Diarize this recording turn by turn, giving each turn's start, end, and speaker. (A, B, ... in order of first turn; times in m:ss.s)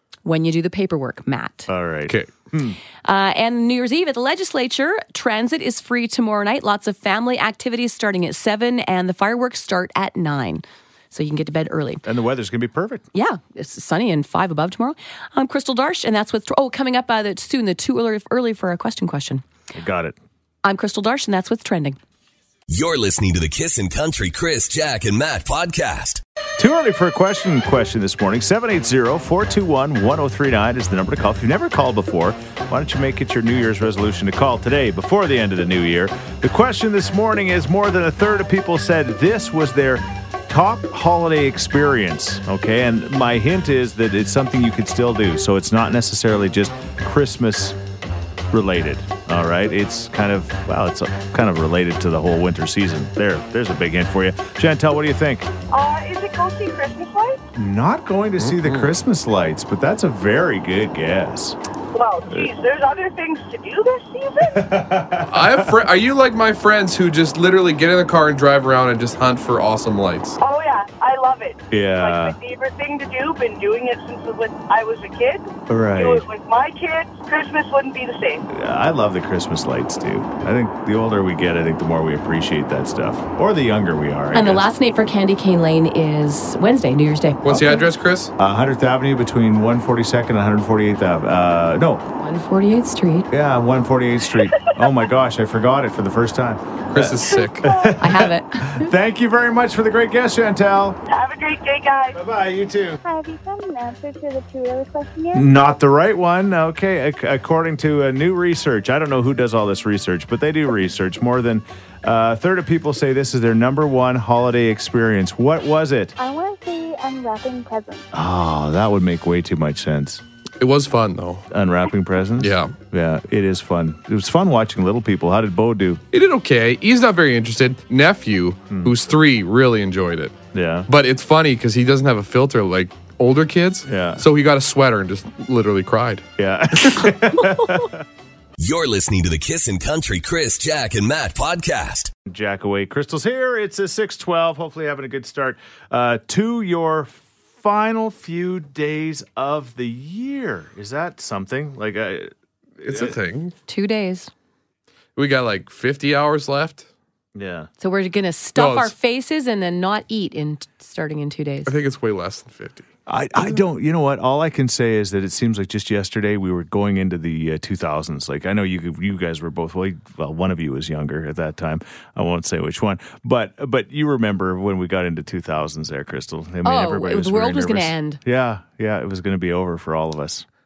0:00.2-0:01.7 A
0:01.7-0:02.8 B
0:03.0-0:12.0 A
0:12.0-0:13.0 B
0:13.1-0:19.4 A
0:19.7-0:20.2 B
0:20.6-0:22.0 A
0:22.7-0:26.2 C
0:26.6-0:47.8 B
0:48.5-0:55.5 B
0:55.7-0:57.4 D
0:57.5-1:01.6 B
0:58.4-0:58.9 E
1:01.9-1:04.7 D
1:04.5-1:05.8 B
1:05.2-1:10.4 E
1:10.4-1:18.4 D
1:11.7-1:12.4 B
1:15.7-1:16.2 B
1:18.5-1:24.6 B
1:24.3-1:27.8 A
1:27.4-1:28.3 E
1:28.4-1:32.0 B
1:32.2-1:33.3 A
1:33.3-1:41.0 B
1:36.9-1:37.7 E
1:38.0-1:38.9 A
1:41.0-1:42.2 D
1:42.1-1:43.0 B
1:43.0-1:45.6 F
1:45.3-1:56.1 B
1:56.2-1:58.1 F
1:58.1-2:00.2 B
2:00.6-2:01.5 E
2:01.5-2:06.0 B
2:02.4-2:02.7 E
2:06.1-2:10.3 E
2:10.5-2:10.9 B
2:10.9-2:16.2 E
2:13.8-2:14.2 B
2:16.4-2:18.0 B
2:18.6-2:22.1 C
2:22.2-2:33.2 B
2:32.8-2:33.5 E
2:33.7-2:34.3 A
2:35.2-2:36.9 E
2:37.3-2:37.7 B
2:37.8-2:41.7 A
2:38.6-2:38.9 E
2:41.6-2:42.9 E
2:43.1-3:00.4 B
2:56.6-2:58.2 A